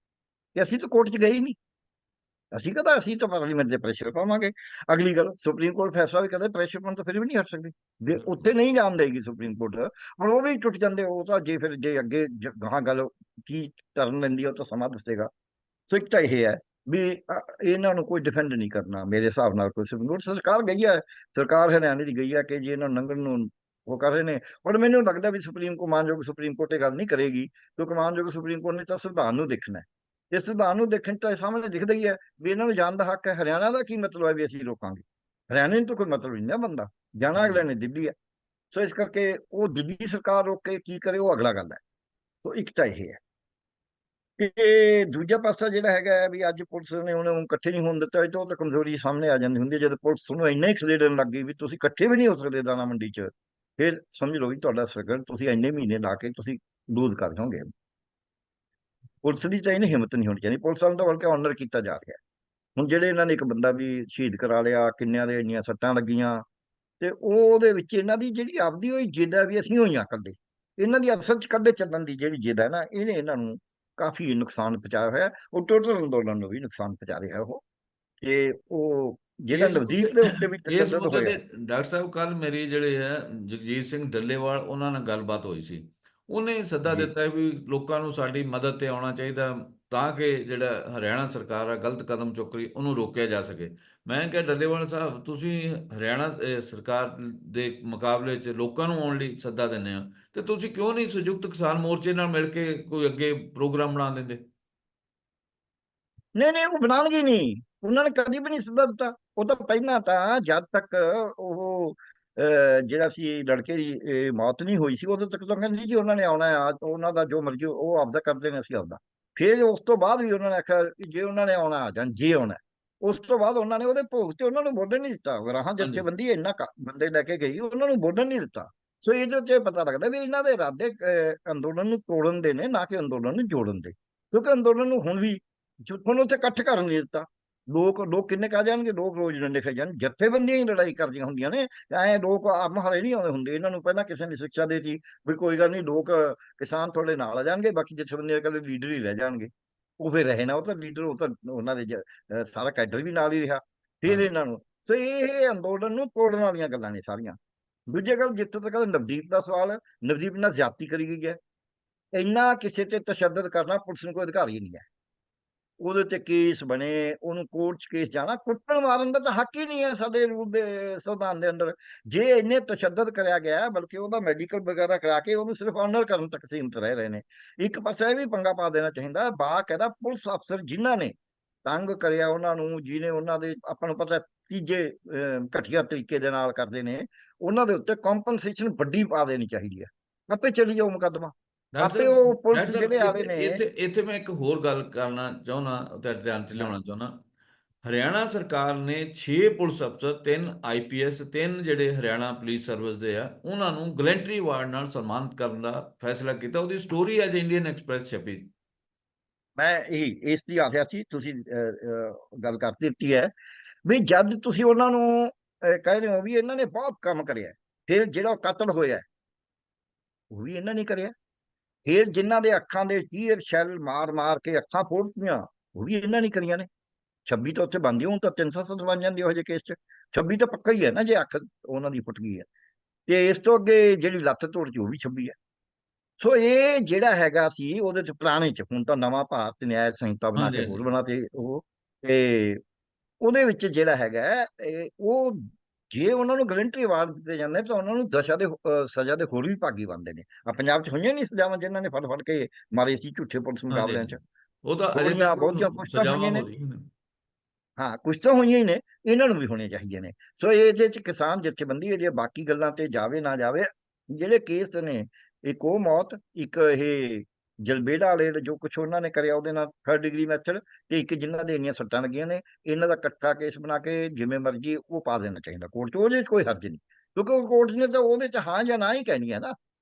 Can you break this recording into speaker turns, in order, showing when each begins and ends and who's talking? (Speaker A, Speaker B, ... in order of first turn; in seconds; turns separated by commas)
Speaker A: 0.5-1.6, Speaker A: 2.5-15.3, Speaker B: 8.2-8.5, Speaker A: 15.9-38.1, Speaker B: 37.3-37.6, Speaker A: 38.7-41.8, Speaker A: 42.4-43.2, Speaker A: 44.4-57.7, Speaker A: 59.2-62.2, Speaker A: 62.8-66.4, Speaker A: 67.0-77.6, Speaker A: 78.2-81.3, Speaker B: 79.5-104.4, Speaker A: 106.3-161.4, Speaker B: 125.8-126.0, Speaker A: 162.1-164.8, Speaker A: 165.8-181.1, Speaker A: 181.6-193.6, Speaker B: 191.7-197.2, Speaker B: 197.8-208.5, Speaker A: 209.6-213.3, Speaker A: 213.8-219.1, Speaker A: 220.3-221.1, Speaker A: 221.8-226.7, Speaker A: 227.2-232.5, Speaker A: 233.1-235.3, Speaker A: 236.2-242.6, Speaker B: 240.3-240.8, Speaker A: 243.2-254.2, Speaker B: 253.7-256.9, Speaker A: 254.9-256.4, Speaker A: 257.8-279.5